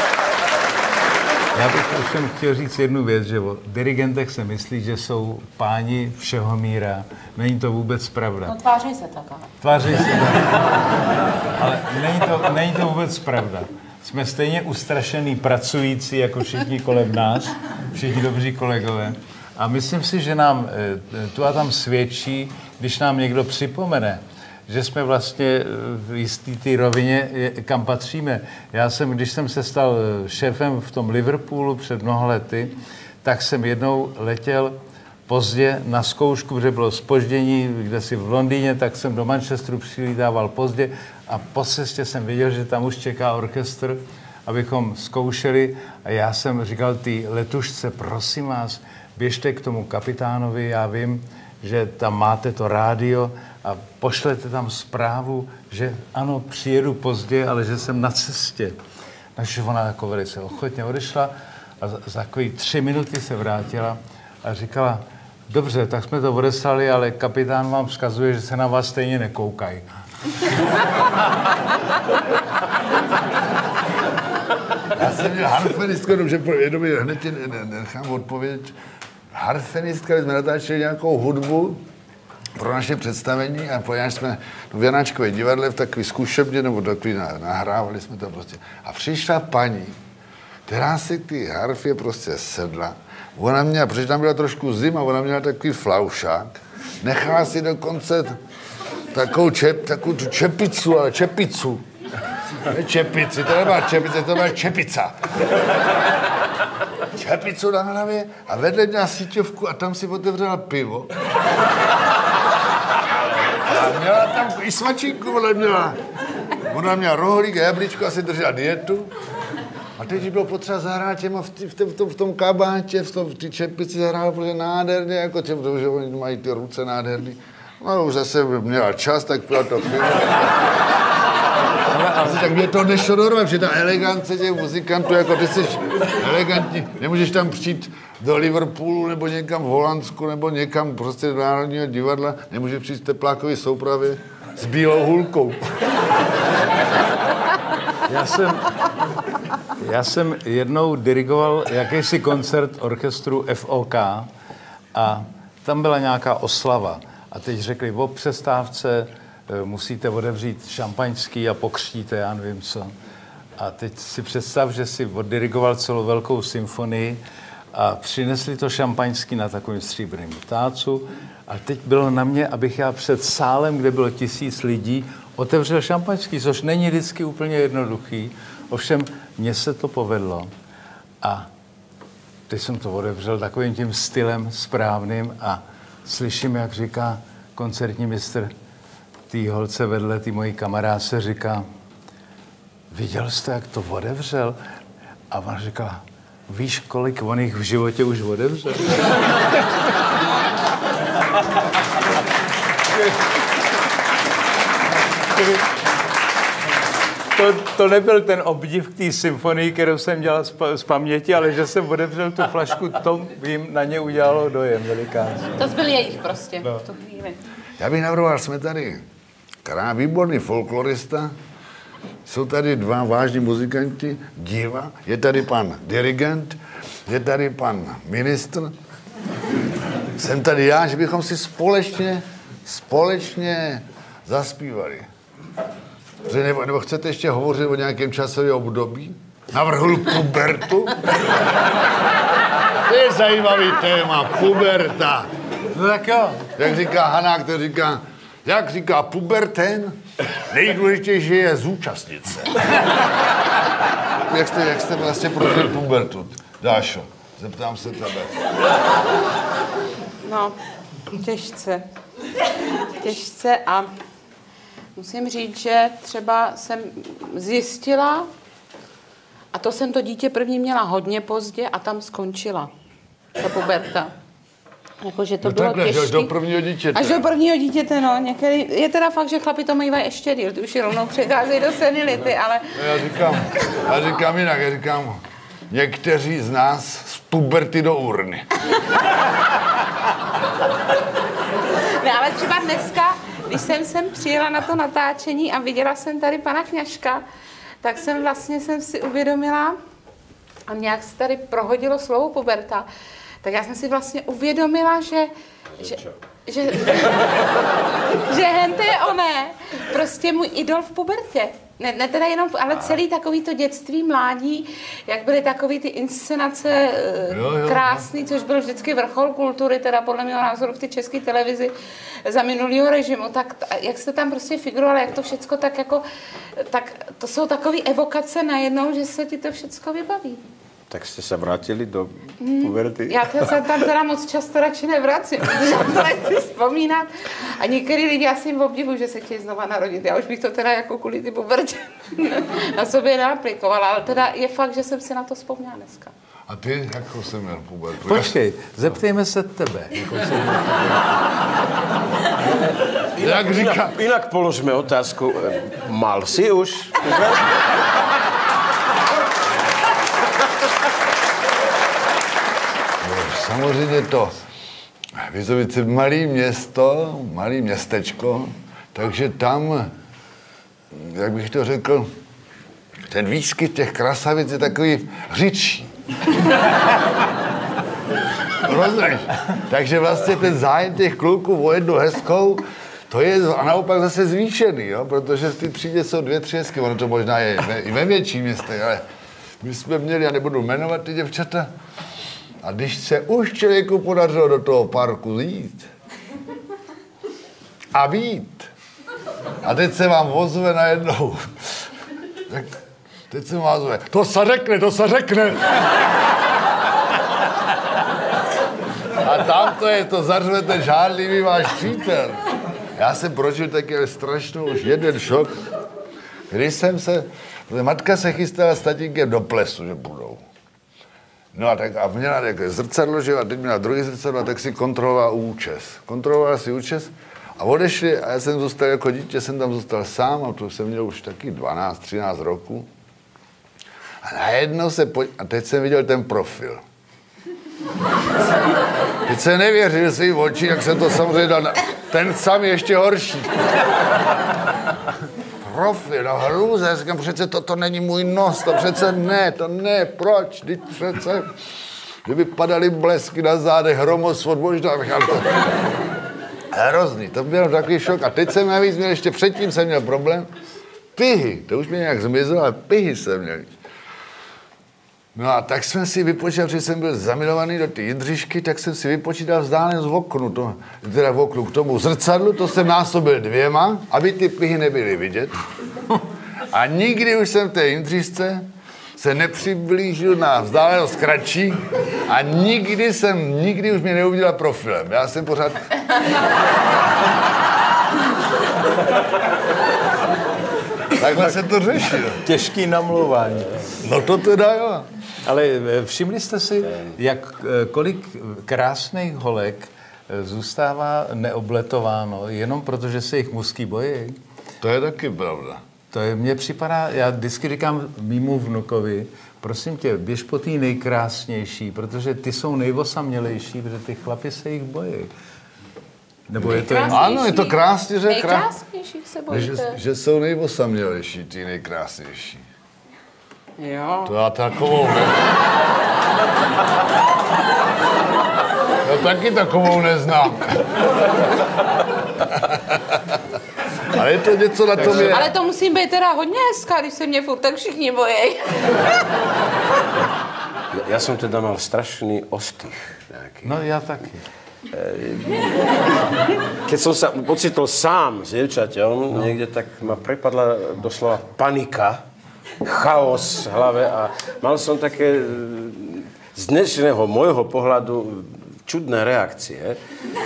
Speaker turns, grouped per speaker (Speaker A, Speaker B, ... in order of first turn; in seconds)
Speaker A: 1.5-8.6, 9.6-34.7, 35.3-58.7, 59.4-69.8, 131.9-132.5, 148.1-148.7, 149.8-154.3, 154.9-162.9, 163.6-167.2, 167.7-180.5, 181.2-181.5, 182.5-188.5, 189.3-191.6, 192.9-194.6, 195.3-199.2, 207.3-215.6, 245.7-246.4, 348.0-350.9, 492.4-493.9, 495.4-504.4, 506.1-515.3, 516.5-517.3, 543.6-544.4
Speaker B: 8.4-9.5, 215.6-217.4, 260.2-260.6, 261.1-261.8, 262.9-263.9, 264.9-268.3, 269.5-272.7, 273.4-274.1, 275.0-276.3, 276.9-282.7, 292.0-297.2, 297.8-299.8, 300.7-302.9, 303.4-307.5, 308.1-330.4, 332.4-346.1, 516.6-520.0, 523.8-524.3, 535.1-539.1
Speaker C: 74.9-78.8, 79.3-81.8, 82.5-90.0, 90.7-98.4, 99.1-101.8, 102.7-105.1, 107.1-111.1, 113.5-116.0, 116.7-119.1, 120.0-130.6, 132.1-145.7, 217.8-219.0, 219.6-221.3, 222.2-228.7, 230.1-235.1, 236.2-241.1, 242.8-245.3, 246.6-252.7, 254.2-258.3, 275.4-277.3, 282.7-288.4, 317.3-318.1, 346.5-348.3, 353.2-353.9, 363.0-364.4, 365.2-369.9, 370.9-372.1, 373.1-375.9, 378.6-389.0, 389.6-391.7, 392.6-395.9, 397.9-398.7, 399.6-401.8, 402.5-402.7, 403.3-405.9, 409.2-412.4, 412.9-415.6, 416.5-420.4, 421.5-432.9, 434.2-436.8, 439.2-443.6, 445.6-451.5, 452.2-455.6, 456.7-460.5, 461.1-463.7, 465.3-475.5, 476.7-485.9, 491.1-492.4, 494.0-495.1, 504.8-505.8, 517.1-518.7, 519.5-522.6, 524.2-525.4, 529.0-531.0, 532.5-533.3, 534.0-535.5
Speaker D: 330.9-333.5, 353.1-357.4, 535.0-535.4, 540.9-543.7, 544.9-545.7, 546.8-552.2, 552.8-560.0